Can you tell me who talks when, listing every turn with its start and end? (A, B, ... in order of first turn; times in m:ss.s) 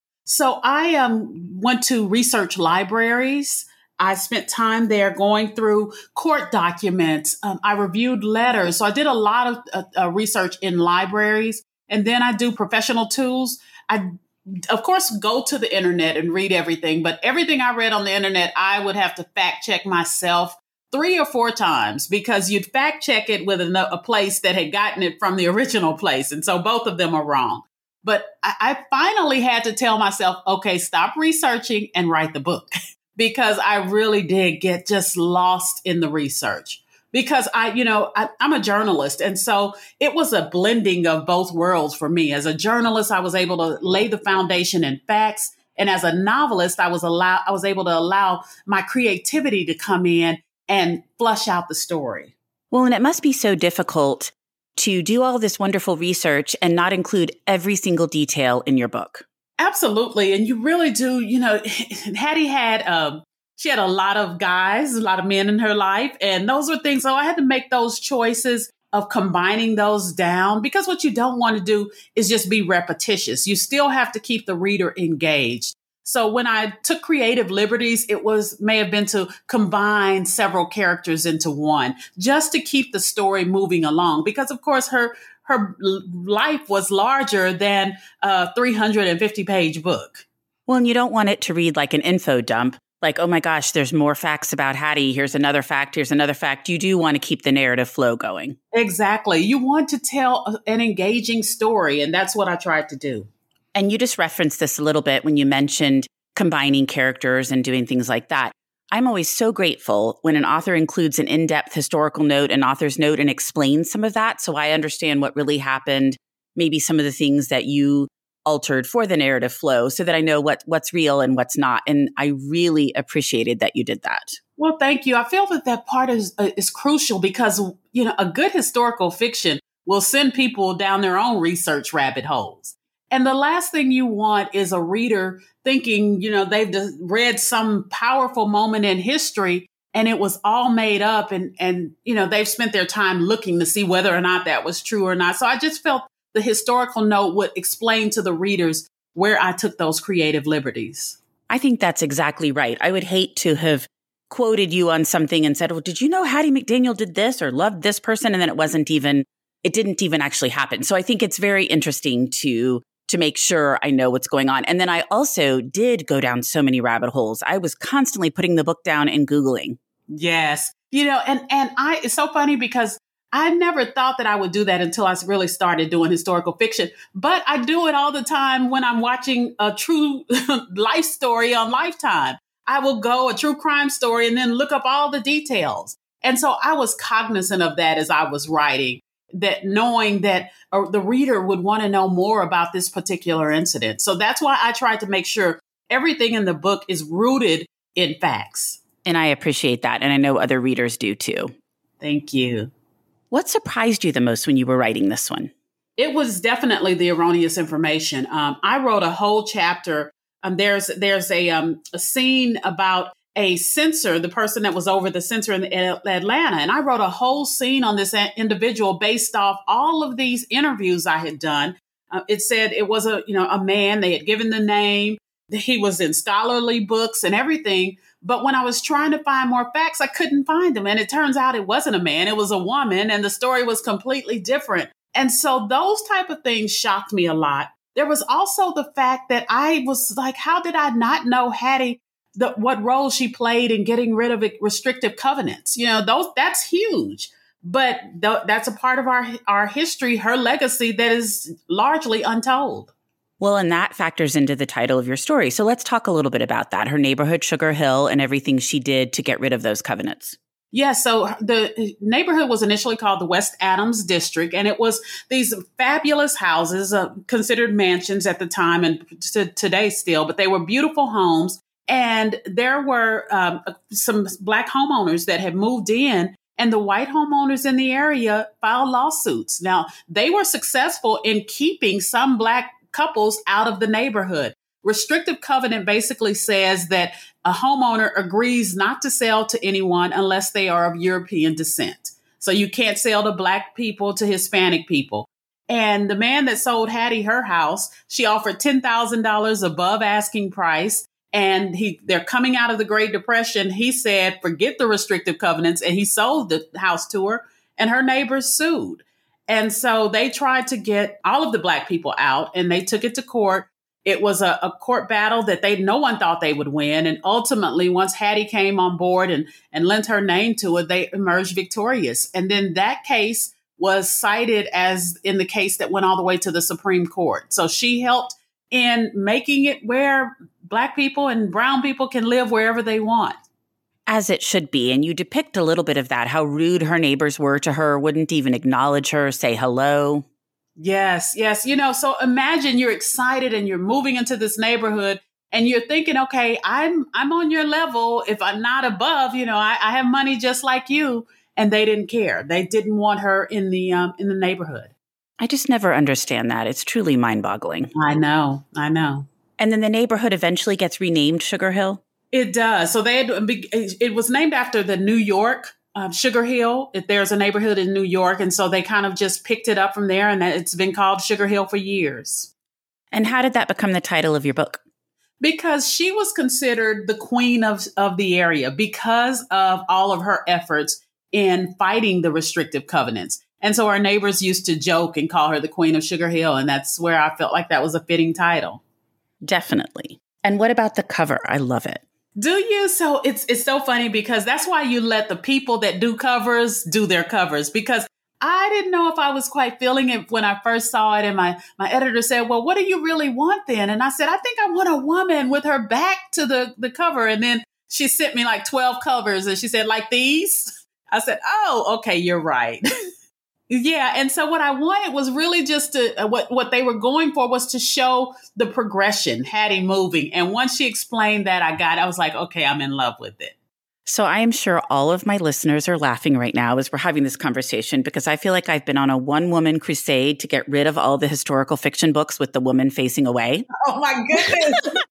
0:00.3-0:52.3 A
0:52.7-0:59.2 B
0:59.6-1:30.2 A
1:30.7-1:38.6 B
1:38.7-1:43.3 A
1:43.8-2:04.4 B
2:04.6-2:31.2 A
2:31.5-2:49.8 B
2:50.1-3:18.8 A
3:19.0-3:21.5 B
3:22.0-3:22.7 A
3:23.3-3:25.5 B
3:26.0-4:12.9 A
4:13.4-4:20.4 B
4:20.7-5:33.4 A
5:34.1-5:40.2 B
5:40.8-5:54.9 A
5:55.4-5:57.9 B
5:58.0-5:59.3 A
5:59.6-6:02.0 B
6:02.3-6:12.5 A
6:13.1-6:14.8 B
6:15.4-6:28.8 A
6:29.4-6:32.0 B
6:32.4-6:52.8 A
6:53.7-7:03.6 A
7:04.1-7:13.7 B
7:13.8-7:15.0 A
7:14.4-7:14.8 B